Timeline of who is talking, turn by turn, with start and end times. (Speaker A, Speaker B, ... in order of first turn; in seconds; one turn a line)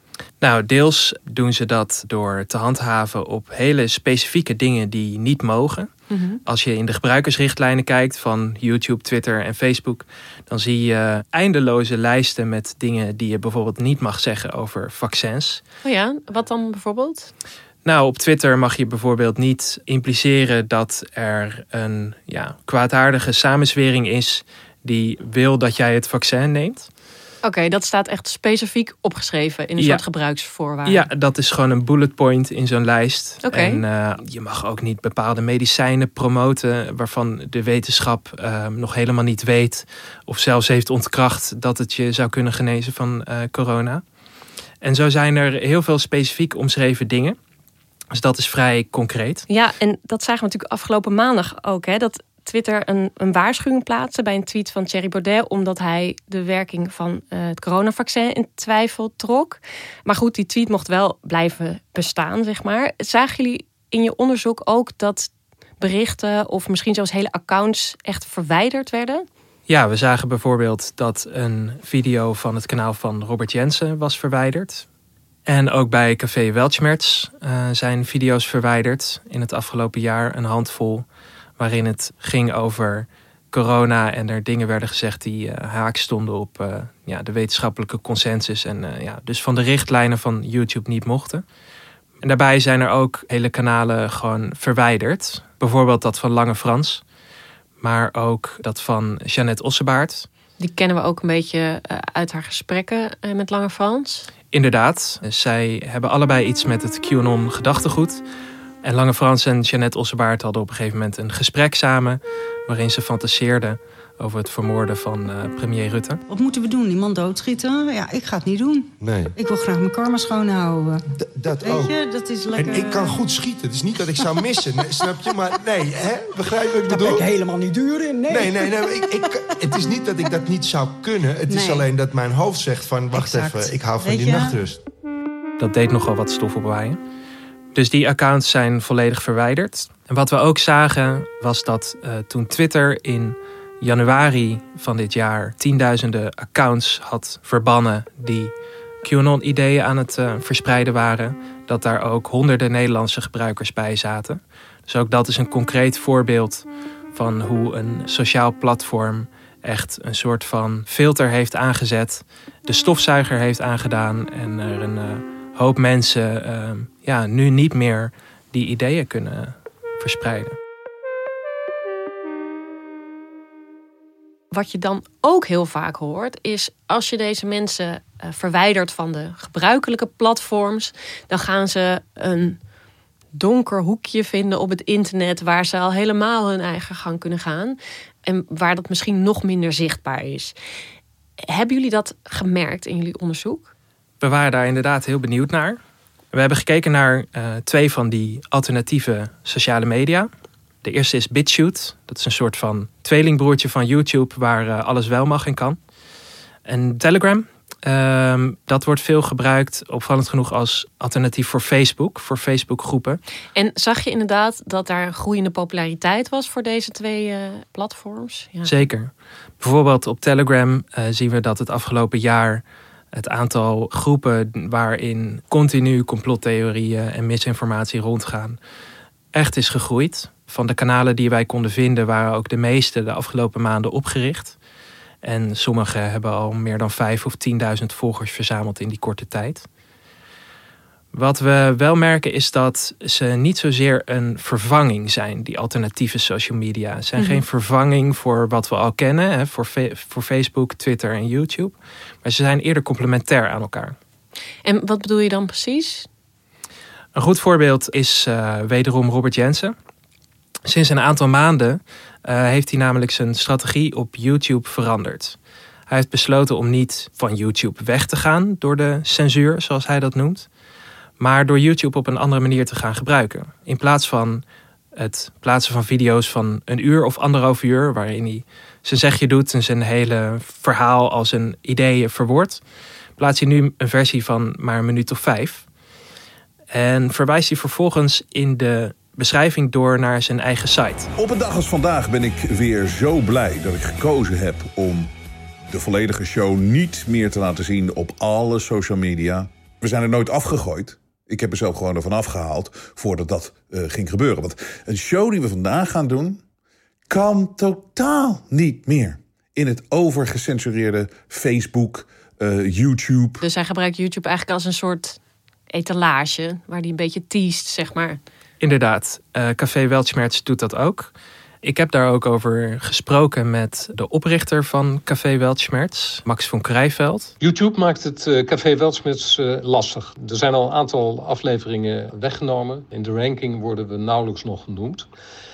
Speaker A: 0.4-5.9
Speaker B: 6.1-6.4
Speaker A: 6.5-15.6
Speaker B: 15.8-17.3
Speaker A: 17.8-26.9
Speaker B: 27.4-31.1
Speaker A: 29.8-30.0
Speaker A: 30.8-44.0
Speaker B: 33.4-33.8
Speaker A: 44.8-47.4
Speaker A: 48.1-49.5
Speaker B: 49.5-69.2
Speaker A: 69.7-74.8
Speaker A: 75.5-81.0
Speaker A: 81.6-91.4
Speaker A: 92.2-97.0
Speaker A: 97.8-100.3
Speaker B: 100.6-104.3
Speaker A: 104.5-108.2
Speaker A: 108.8-116.2
Speaker C: 116.3-121.0
Speaker D: 119.0-119.3
Speaker D: 121.2-122.0
Speaker C: 121.6-123.2
Speaker D: 122.5-127.4
Speaker C: 126.9-128.8
Speaker D: 128.2-134.8
Speaker C: 131.5-131.9
Speaker C: 133.1-134.6
Speaker A: 135.6-137.0
Speaker A: 137.7-170.6
Speaker B: 174.5-182.6
Speaker B: 183.3-190.5
Speaker B: 191.4-193.7
Speaker A: 194.2-195.8
Speaker A: 196.3-200.3
Speaker A: 200.8-205.8
Speaker A: 206.7-213.2
Speaker B: 213.5-218.8
Speaker A: 218.7-228.6
Speaker A: 229.3-234.6
Speaker A: 235.2-239.6
Speaker A: 241.1-253.9
Speaker B: 254.6-256.1
Speaker A: 257.1-259.7
Speaker A: 260.7-265.4
Speaker A: 265.9-270.5
Speaker A: 271.2-274.4
Speaker A: 274.9-282.6
Speaker A: 283.2-285.6
Speaker A: 286.7-291.1
Speaker E: 291.2-295.1
Speaker E: 295.7-306.4
Speaker E: 307.1-313.4
Speaker B: 313.4-315.2
Speaker B: 315.7-318.2
Speaker A: 318.6-327.3
Speaker F: 327.4-335.1